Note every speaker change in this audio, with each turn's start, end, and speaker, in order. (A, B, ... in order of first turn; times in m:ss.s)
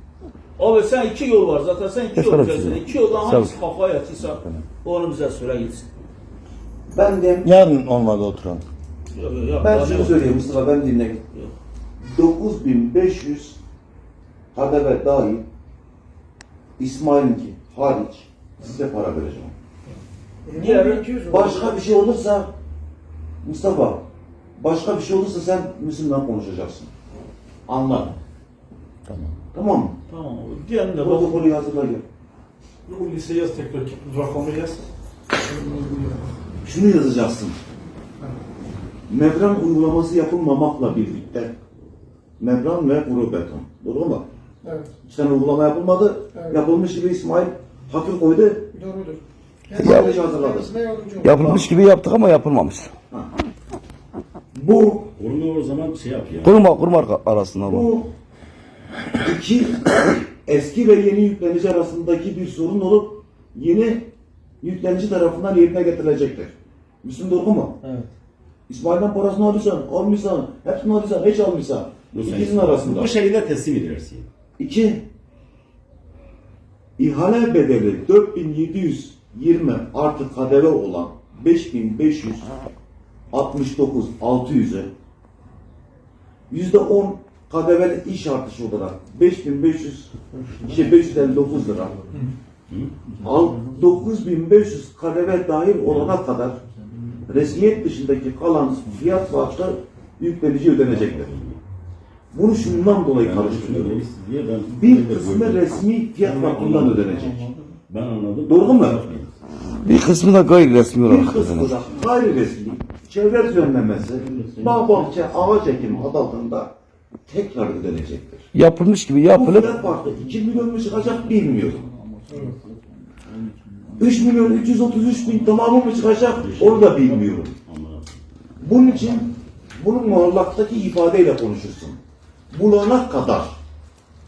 0:00.6-0:05.9 A
0:02.2-0:03.5 B
0:04.3-0:04.6 B
0:06.9-0:07.6 C
0:07.4-0:08.6 B
0:09.1-0:10.5 A
0:09.6-0:11.2 C
0:12.0-0:13.6 C
0:14.5-0:15.4 C
0:16.8-0:19.5 C
0:20.5-0:21.6 D
0:20.5-0:21.4 A
0:21.3-0:22.5 C
0:23.4-0:24.0 C
0:24.6-0:26.9 C
0:27.7-0:28.2 C
0:29.3-0:30.0 C
0:30.1-0:31.4 A
0:31.0-0:32.0 C
0:32.9-0:34.8 D
0:35.5-0:36.3 D
0:36.6-0:37.6 C
0:39.1-0:41.5 C
0:42.4-0:44.3 C
0:44.6-0:44.9 D
0:45.0-0:48.7 C
0:46.3-0:46.6 D
0:48.7-0:51.7 D
0:49.7-0:50.7 C
0:49.8-0:50.2 B
0:51.2-0:52.9 B
0:54.5-0:55.1 C
0:55.2-0:56.6 E
0:56.4-0:57.9 B
0:57.6-0:58.1 C
0:59.2-1:04.1 C
1:04.6-1:07.8 C
1:08.7-1:13.1 C
1:12.1-1:14.3 E
1:14.6-1:15.0 C
1:17.0-1:22.5 C
1:23.3-1:24.9 C
1:26.5-1:30.1 C
1:30.4-1:30.8 D
1:30.6-1:32.0 C
1:32.7-1:33.0 E
1:33.2-1:33.8 D
1:33.2-1:36.6 C
1:35.8-1:36.2 E
1:37.3-1:41.3 C
1:40.9-1:41.6 E
1:42.3-1:44.0 C
1:43.2-1:47.2 E
1:44.7-1:47.5 C
1:47.1-1:47.8 D
1:47.9-1:49.3 E
1:48.5-1:49.0 C
1:49.8-1:51.8 B
1:51.1-1:56.7 C
1:54.2-1:55.6 E
1:54.3-1:54.8 D
1:57.3-1:58.5 C
1:58.5-1:59.8 B
1:59.3-2:01.8 C
1:59.8-2:05.6 D
2:04.0-2:07.5 C
2:06.4-2:08.2 E
2:08.6-2:12.0 C
2:12.5-2:13.6 C